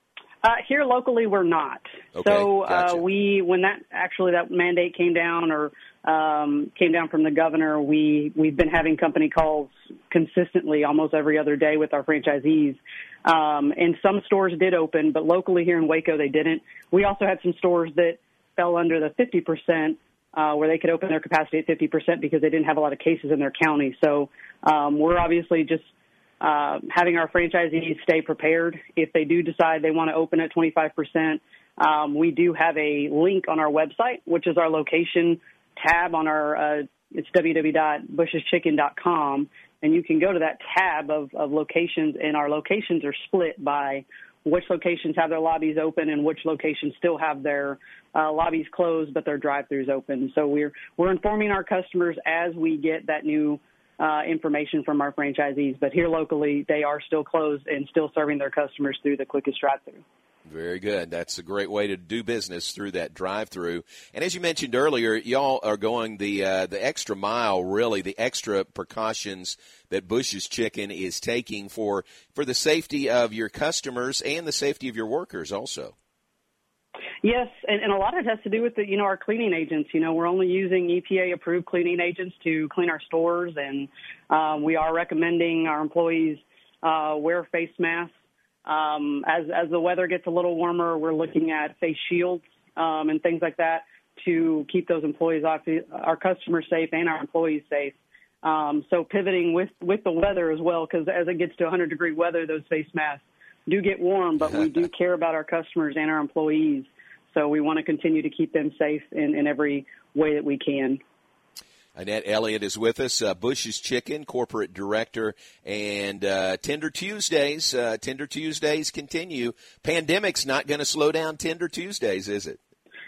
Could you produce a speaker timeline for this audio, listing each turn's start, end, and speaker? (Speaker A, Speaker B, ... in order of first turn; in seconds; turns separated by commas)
Speaker A: 0.4-25.9, Speaker B: 2.1-3.0, Speaker A: 26.4-60.0, Speaker B: 60.5-75.9, Speaker A: 77.2-88.1, Speaker A: 88.7-111.0, Speaker B: 112.0-122.6